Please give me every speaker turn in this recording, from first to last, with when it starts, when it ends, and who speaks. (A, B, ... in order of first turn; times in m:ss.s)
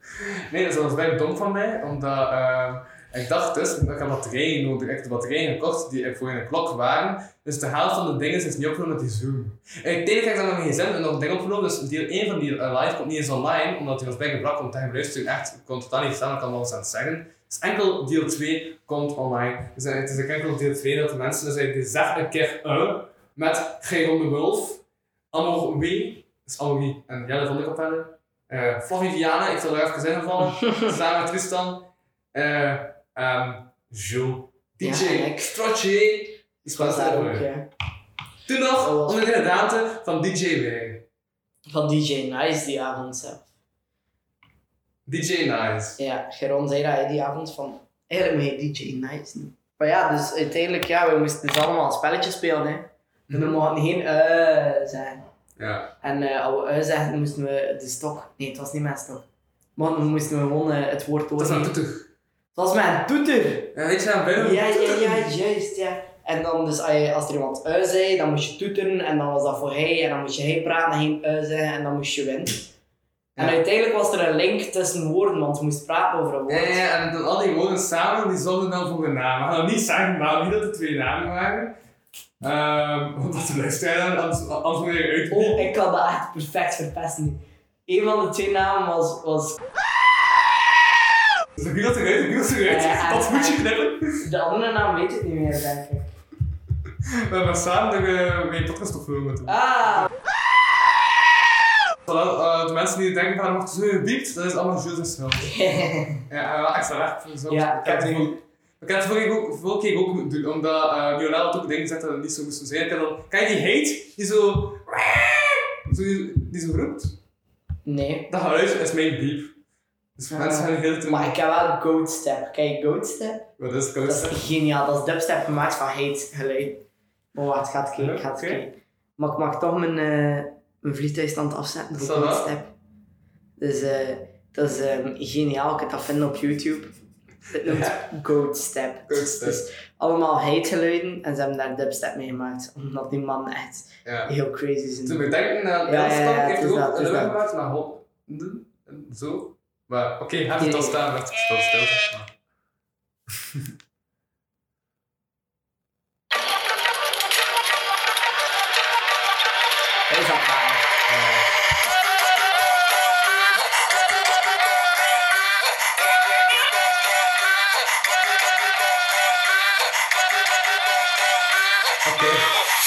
0:00.5-0:37.5 A
0:34.8-0:35.5 B
0:36.7-0:37.7 B
0:38.4-0:41.0 A
0:38.8-0:39.3 B
0:41.7-0:43.4 B
0:45.0-0:46.0 A
0:46.0-0:55.2 B
0:53.3-0:53.6 A
0:55.6-0:55.9 A
0:56.0-0:59.2 B
0:59.8-1:01.7 B
1:01.4-1:02.1 A
1:02.5-1:03.7 B
1:03.7-1:05.3 A
1:04.4-1:12.6 B
1:13.4-1:16.8 B
1:16.5-1:21.7 A
1:22.4-1:25.7 A
1:25.3-1:29.6 B
1:31.6-1:34.0 A
1:32.6-1:33.7 B
1:34.2-1:36.1 B
1:37.1-1:40.1 A
1:39.5-1:40.1 B
1:42.0-1:45.5 A
1:45.4-1:46.2 B
1:46.3-1:57.1 A
1:47.5-1:48.4 B
1:57.8-1:58.3 B
1:58.3-1:59.5 A
2:00.2-2:01.3 A
2:00.3-2:03.5 B
2:03.6-2:04.4 A
2:04.0-2:06.8 B
2:07.3-2:12.7 B
2:08.0-2:08.6 A
2:12.0-2:12.5 A
2:13.6-2:16.9 B
2:17.5-2:25.3 B
2:17.5-2:18.0 A
2:19.1-2:19.6 A
2:24.0-2:24.3 A
2:25.0-2:32.3 A
2:25.8-2:27.4 B
2:30.6-2:31.0 B
2:40.1-2:40.8 B
2:41.1-2:41.5 A
2:52.0-2:52.5 A